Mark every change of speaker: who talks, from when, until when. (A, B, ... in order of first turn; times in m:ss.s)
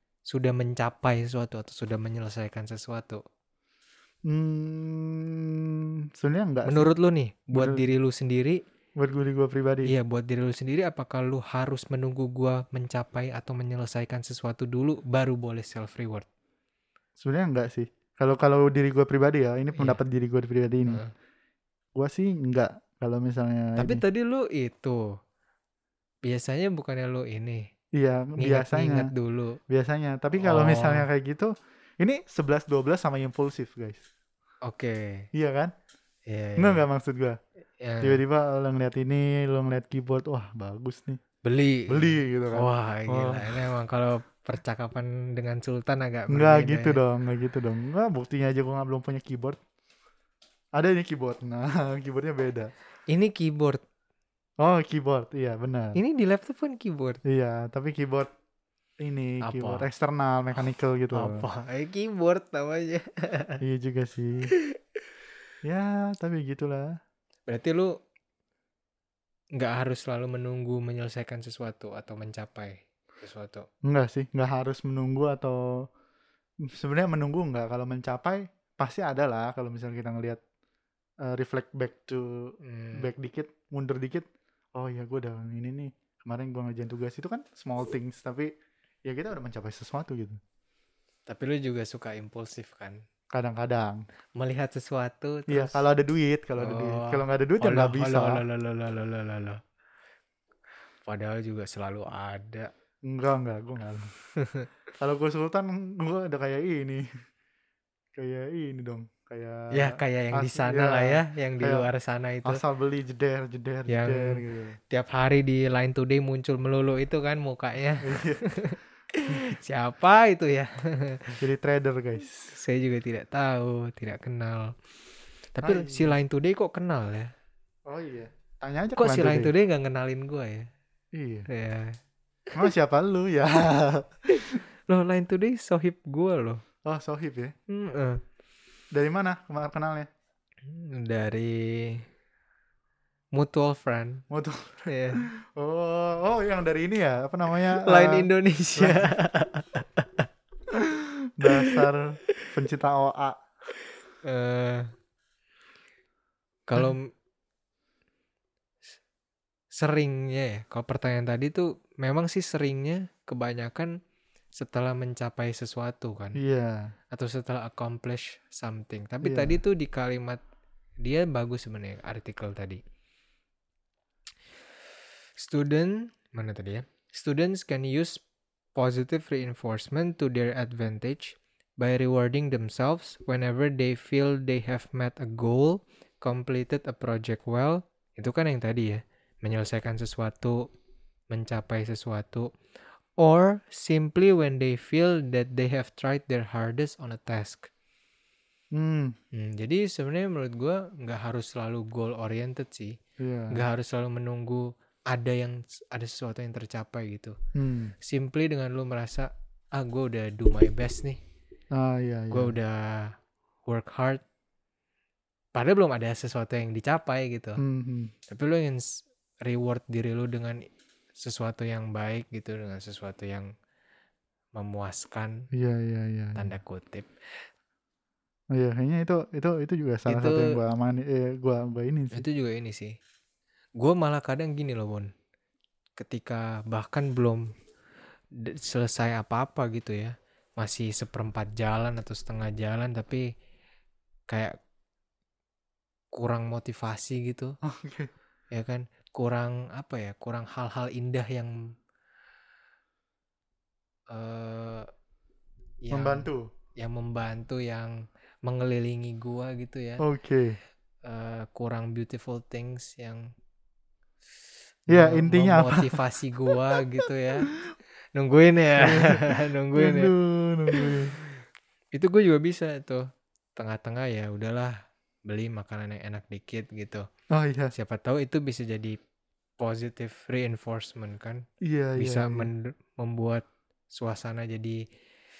0:00.3-0:03.2 A
0:04.3-0:06.9 B
0:06.6-0:08.6 A
0:07.5-0:07.8 B
0:09.0-0:09.9 B
0:09.8-0:16.3 A
0:17.2-0:21.0 B
0:20.9-0:21.1 A
0:22.0-0:24.0 B
0:23.8-0:25.0 A
0:26.2-0:27.7 A
0:28.0-0:29.1 B
0:28.4-0:29.6 A
0:29.7-0:34.1 B
0:30.4-0:31.1 A
0:34.6-0:35.2 A
0:35.3-0:35.7 B
0:36.3-0:36.8 A
0:36.6-0:37.4 B
0:37.8-0:38.2 A
0:38.0-0:41.2 B
0:41.4-0:47.0 A
0:41.9-0:43.6 B
0:46.3-0:49.6 B
0:50.7-0:52.7 B
0:53.1-0:53.8 A
0:54.6-0:56.0 B
0:56.0-0:57.2 A
0:57.2-0:58.3 B
0:59.0-1:01.4 B
0:59.4-0:59.9 A
1:01.1-1:03.6 A
1:03.6-1:04.5 B
1:05.6-1:06.9 B
1:07.5-1:07.9 A
1:09.6-1:13.7 A
1:13.8-1:15.9 B
1:16.6-1:20.4 B
1:21.2-1:28.5 B
1:22.6-1:23.1 A
1:29.0-1:30.4 B
1:31.3-1:33.0 A
1:33.3-1:34.0 B
1:34.4-1:35.8 A
1:35.5-1:38.4 B
1:36.6-1:39.6 A
1:41.0-1:42.7 A
1:43.0-1:44.1 B
1:44.4-1:44.7 A
1:45.0-1:47.0 B
1:48.1-1:51.9 B
1:49.7-1:52.6 A
1:52.4-1:54.8 B
1:53.9-2:01.4 A
1:58.0-1:58.4 B
2:01.4-2:02.5 B
2:02.5-2:04.7 A
2:05.5-2:07.3 A
2:05.6-2:06.2 B
2:07.9-2:09.5 B
2:09.0-2:10.7 A
2:11.1-2:11.5 B
2:11.5-2:12.0 A
2:12.5-2:14.6 B
2:14.3-2:16.6 A
2:16.8-2:17.5 B
2:17.7-2:18.2 A
2:18.9-2:20.1 B
2:20.6-2:22.0 A
2:23.3-2:24.2 A
2:24.3-2:29.1 B
2:24.9-2:25.2 A
2:27.7-2:30.3 A
2:30.7-2:33.4 B
2:31.4-2:31.8 A
2:34.2-2:34.9 A
2:36.7-2:37.1 A
2:39.7-2:43.9 A
2:44.6-2:46.4 A
2:46.4-2:46.9 B
2:47.1-2:50.4 A
2:49.2-2:49.6 B
2:51.0-2:52.8 A
2:55.4-2:58.2 A
2:58.8-3:10.6 A
3:11.3-3:12.5 A
3:13.2-3:17.7 A
3:18.7-3:19.1 B
3:19.3-3:23.0 A
3:23.2-3:23.6 B
3:23.5-3:27.4 A
3:27.6-3:27.9 B
3:28.0-3:31.2 A
3:31.7-3:32.5 B
3:32.3-3:33.1 A
3:33.7-3:34.2 A
3:35.5-3:37.6 A
3:37.6-3:38.1 B
3:38.3-3:38.9 A
3:39.4-3:40.6 A
3:41.2-3:43.5 A
3:44.6-3:45.4 A
3:45.5-3:46.5 B
3:46.4-3:47.1 A
3:48.5-3:52.2 B
3:50.1-3:50.6 A
3:52.1-3:52.9 A
3:53.8-3:55.1 A
3:56.0-3:57.4 A
3:58.4-4:03.3 A
4:04.3-4:04.5 A
4:06.1-4:07.6 A
4:07.6-4:08.1 B
4:08.5-4:11.5 A
4:14.1-4:14.9 A
4:15.8-4:16.3 A
4:15.9-4:16.5 B
4:16.8-4:17.9 A
4:18.4-4:20.0 A
4:20.0-4:20.6 B
4:21.0-4:23.3 A
4:24.9-4:27.5 A
4:24.9-4:26.0 B
4:28.1-4:30.1 A
4:28.8-4:31.1 B
4:30.7-4:31.3 A
4:31.9-4:33.0 A
4:33.6-4:34.7 A
4:35.3-4:37.0 A
4:37.3-4:37.7 B
4:37.7-4:39.0 A
4:39.6-4:41.4 A
4:41.6-4:42.5 B
4:42.0-4:44.8 A